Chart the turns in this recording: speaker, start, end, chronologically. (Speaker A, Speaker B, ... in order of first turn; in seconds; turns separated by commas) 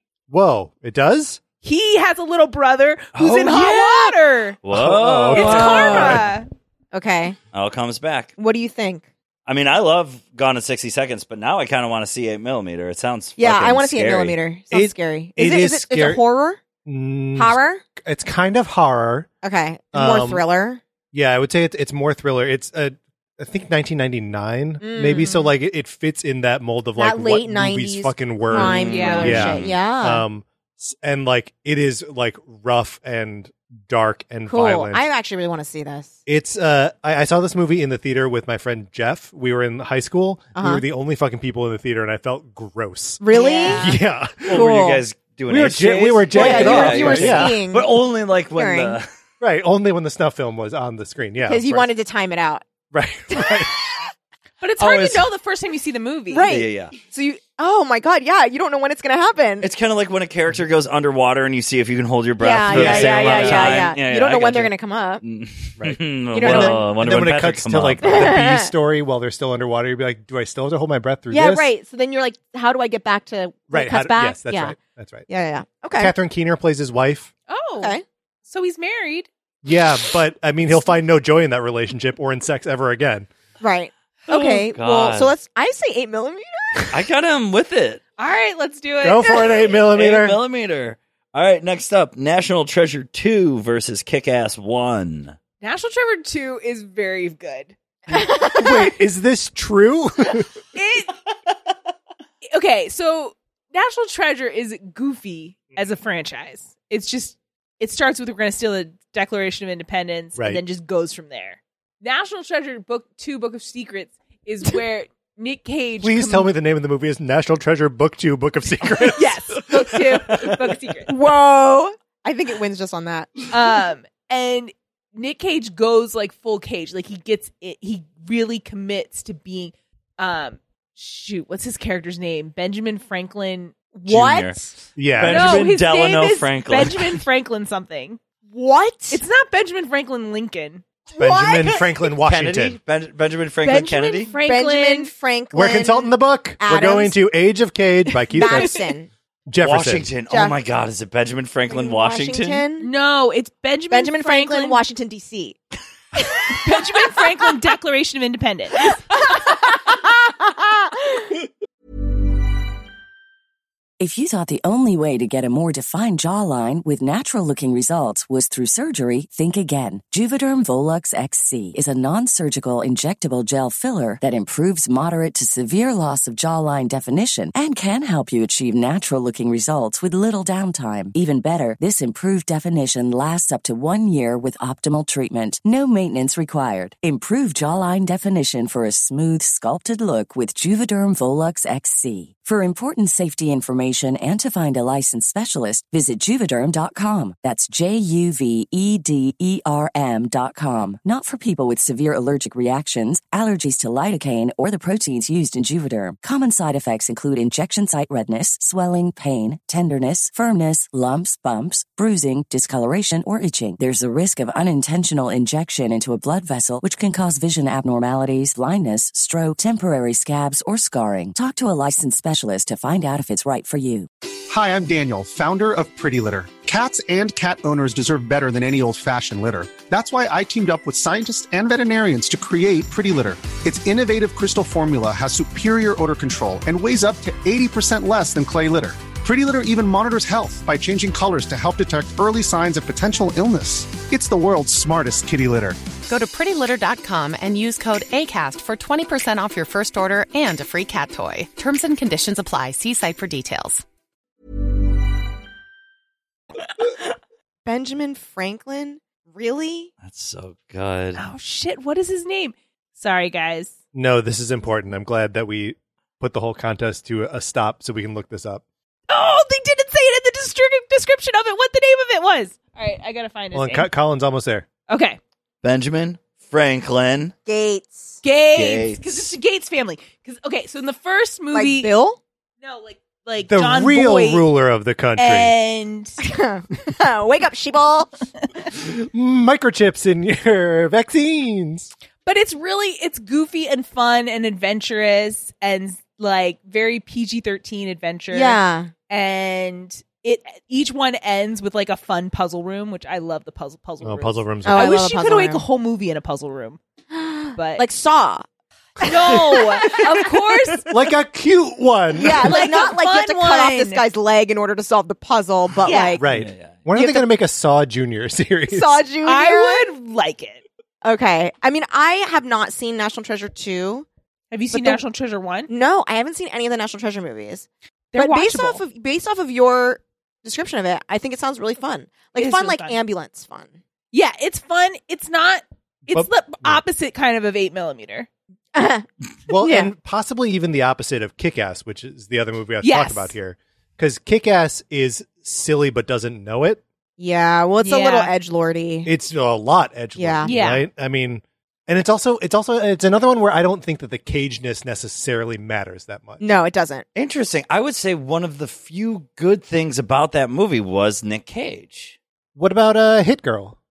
Speaker A: 0.3-1.4, Speaker B: 1.6-4.6, Speaker C: 3.1-6.3, Speaker A: 4.7-6.3, Speaker B: 5.3-6.5, Speaker D: 5.4-6.2, Speaker D: 6.9-7.4, Speaker C: 7.5-8.3, Speaker D: 8.4-9.1, Speaker C: 9.5-14.4, Speaker D: 13.4-16.6, Speaker A: 14.7-16.2, Speaker A: 16.9-19.3, Speaker D: 17.4-17.8, Speaker D: 19.4-20.8, Speaker A: 19.9-20.4, Speaker A: 21.1-35.0, Speaker D: 24.8-25.5, Speaker D: 27.0-30.2, Speaker C: 28.6-29.8, Speaker B: 28.9-29.5, Speaker D: 34.5-36.2, Speaker A: 36.3-45.0, Speaker D: 40.6-40.8, Speaker D: 43.2-43.9, Speaker B: 43.4-43.9, Speaker C: 44.5-49.1, Speaker D: 44.5-45.0, Speaker A: 45.5-47.6, Speaker D: 46.3-48.0, Speaker D: 48.6-49.0, Speaker A: 49.4-51.9, Speaker D: 51.5-52.6, Speaker A: 52.9-53.8, Speaker B: 54.6-56.5, Speaker C: 54.8-55.3, Speaker D: 56.3-59.7, Speaker C: 56.5-56.9, Speaker C: 59.6-68.4, Speaker D: 62.4-65.2, Speaker A: 62.7-63.9, Speaker A: 65.8-71.7, Speaker D: 66.3-66.9, Speaker D: 68.0-68.7, Speaker D: 71.3-74.8, Speaker A: 73.7-75.3, Speaker D: 75.3-76.1, Speaker A: 76.0-77.3, Speaker B: 77.5-79.3, Speaker A: 79.6-83.3, Speaker D: 83.6-86.9, Speaker C: 84.3-85.3, Speaker C: 86.9-88.0, Speaker B: 88.2-89.7, Speaker A: 89.0-90.4, Speaker C: 89.8-95.4, Speaker B: 95.6-97.8, Speaker A: 98.1-100.5, Speaker D: 98.2-98.7, Speaker B: 100.8-101.1, Speaker B: 102.5-116.5, Speaker A: 110.4-110.6, Speaker A: 116.0-120.5, Speaker B: 119.1-121.1, Speaker D: 121.1-123.5, Speaker B: 123.5-133.8, Speaker D: 133.9-134.7, Speaker C: 134.1-134.6, Speaker A: 135.0-135.7, Speaker C: 135.1-137.2, Speaker B: 135.2-138.2, Speaker D: 138.5-139.2, Speaker B: 139.1-140.8, Speaker A: 141.2-142.8, Speaker D: 141.2-141.8, Speaker C: 142.2-144.3, Speaker B: 143.6-145.1, Speaker D: 144.4-147.2, Speaker A: 145.5-148.8, Speaker D: 148.3-149.1, Speaker A: 149.5-150.1, Speaker C: 149.6-152.7, Speaker D: 150.3-150.6, Speaker D: 151.7-152.9, Speaker B: 152.8-154.8, Speaker D: 153.9-155.6, Speaker B: 156.5-159.0, Speaker D: 156.5-156.8, Speaker D: 159.3-161.1, Speaker E: 164.0-224.1, Speaker F: 224.5-245.8, Speaker G: 246.1-253.8, Speaker D: 257.6-259.9, Speaker C: 260.0-261.3, Speaker B: 261.2-263.8, Speaker A: 263.9-268.6, Speaker B: 269.1-273.9, Speaker A: 273.5-274.7, Speaker B: 274.9-275.2, Speaker C: 275.6-277.3, Speaker D: 277.5-278.2, Speaker B: 278.2-281.9, Speaker C: 278.5-279.3, Speaker D: 281.5-282.2, Speaker B: 282.6-284.5, Speaker A: 283.4-285.5, Speaker B: 285.2-286.2, Speaker D: 286.2-288.1, Speaker A: 288.8-291.9, Speaker B: 292.2-306.8, Speaker D: 298.3-298.9, Speaker A: 304.0-304.9, Speaker D: 304.6-305.6, Speaker D: 307.1-308.4, Speaker B: 307.6-307.8, Speaker D: 309.0-310.8, Speaker B: 309.0-310.9, Speaker A: 310.9-312.6, Speaker D: 312.2-316.2, Speaker B: 312.4-314.0, Speaker B: 315.8-316.2, Speaker A: 316.2-319.0, Speaker C: 316.3-316.8, Speaker D: 316.9-317.2, Speaker D: 318.7-319.9, Speaker B: 319.2-320.6, Speaker D: 321.0-324.1, Speaker B: 324.5-325.7, Speaker D: 324.7-325.0, Speaker D: 325.7-333.8, Speaker B: 328.1-328.8, Speaker B: 332.4-333.0, Speaker B: 334.1-338.3, Speaker A: 336.1-336.8, Speaker D: 338.7-339.9, Speaker A: 339.5-346.8, Speaker B: 342.8-343.3, Speaker D: 347.2-349.1, Speaker B: 347.8-348.3, Speaker A: 349.1-356.4, Speaker D: 350.2-350.6, Speaker B: 350.4-350.9, Speaker D: 356.4-357.1, Speaker C: 357.1-362.2, Speaker A: 362.6-363.8